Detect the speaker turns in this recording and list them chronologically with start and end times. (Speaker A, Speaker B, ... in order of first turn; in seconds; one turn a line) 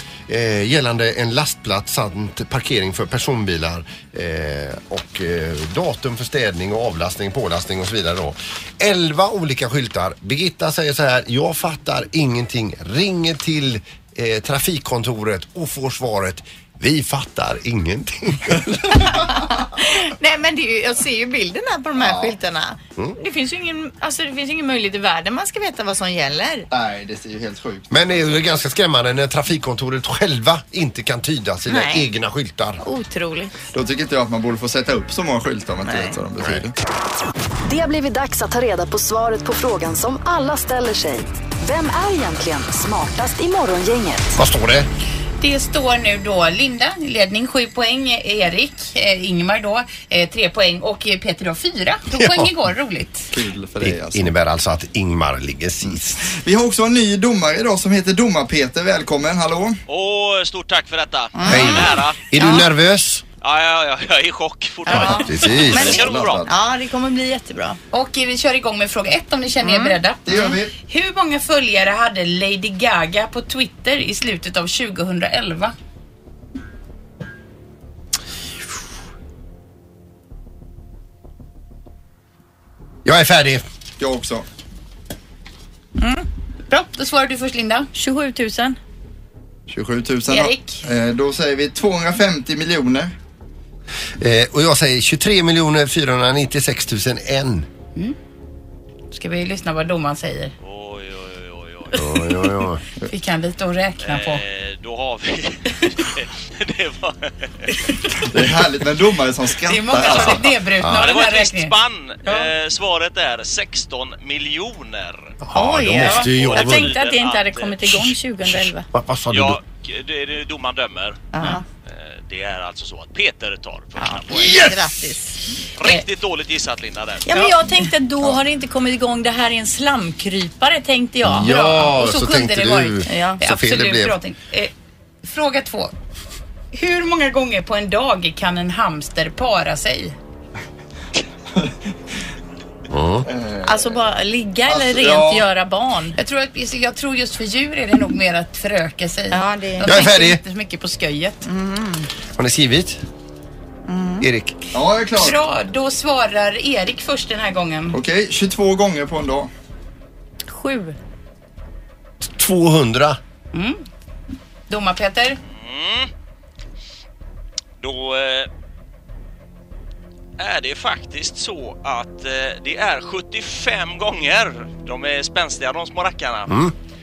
Speaker A: 0.3-19.3
Speaker B: 18.9-26.7
Speaker C: 22.0-22.4
Speaker C: 26.7-28.5
Speaker A: 27.9-32.8
Speaker B: 31.7-32.1
Speaker B: 32.8-33.5
Speaker C: 33.7-36.8
Speaker B: 35.9-36.2
Speaker D: 37.7-44.4
Speaker A: 44.4-44.9
Speaker E: 45.4-53.3
Speaker A: 52.1-52.5
Speaker C: 53.3-54.3
Speaker A: 53.8-56.3
Speaker C: 55.9-59.8
Speaker F: 59.9-62.2
Speaker B: 61.4-62.6
Speaker A: 61.5-63.2
Speaker F: 63.4-66.4
Speaker B: 64.9-67.8
Speaker A: 64.9-66.0
Speaker C: 64.9-66.6
Speaker E: 67.9-75.7
Speaker B: 69.6-70.5
Speaker C: 70.3-70.7
Speaker A: 83.0-83.7
Speaker C: 84.0-84.5
Speaker B: 86.0-86.2
Speaker E: 86.7-87.9
Speaker B: 88.0-88.8
Speaker C: 89.7-93.1
Speaker E: 90.3-90.8
Speaker A: 94.2-97.7
Speaker E: 99.1-100.5
Speaker F: 100.6-102.1
Speaker A: 102.0-102.8
Speaker E: 103.0-104.4
Speaker F: 104.0-107.7
Speaker E: 107.7-108.3
Speaker C: 108.3-110.6
Speaker E: 109.7-112.5
Speaker F: 110.1-115.3
Speaker A: 110.8-111.2
Speaker A: 115.4-117.0
Speaker B: 115.5-118.9
Speaker F: 116.0-118.0
Speaker A: 118.9-119.6
Speaker F: 119.3-124.7
Speaker B: 121.3-121.6
Speaker B: 124.0-126.0
Speaker A: 124.3-124.8
Speaker F: 125.8-127.3
Speaker B: 127.3-131.5
Speaker A: 131.2-134.2
Speaker E: 131.4-134.7
Speaker B: 133.1-133.4
Speaker E: 135.2-135.9
Speaker E: 136.7-140.2
Speaker A: 142.9-143.3
Speaker C: 143.2-144.0
Speaker B: 143.7-146.2
Speaker C: 144.7-145.5
Speaker E: 146.2-151.4
Speaker B: 149.3-150.0
Speaker A: 149.8-150.4
Speaker B: 151.4-152.1
Speaker A: 152.4-153.0
Speaker B: 153.9-154.3
Speaker A: 154.2-154.7
Speaker C: 154.7-155.4
Speaker E: 155.2-158.0
Speaker C: 157.9-159.5
Speaker B: 160.5-160.9
Speaker A: 162.2-163.2
Speaker E: 163.5-163.8
Speaker E: 164.7-165.4
Speaker F: 165.5-166.1
Speaker F: 167.8-168.5
Speaker F: 170.4-176.6
Speaker A: 176.5-176.8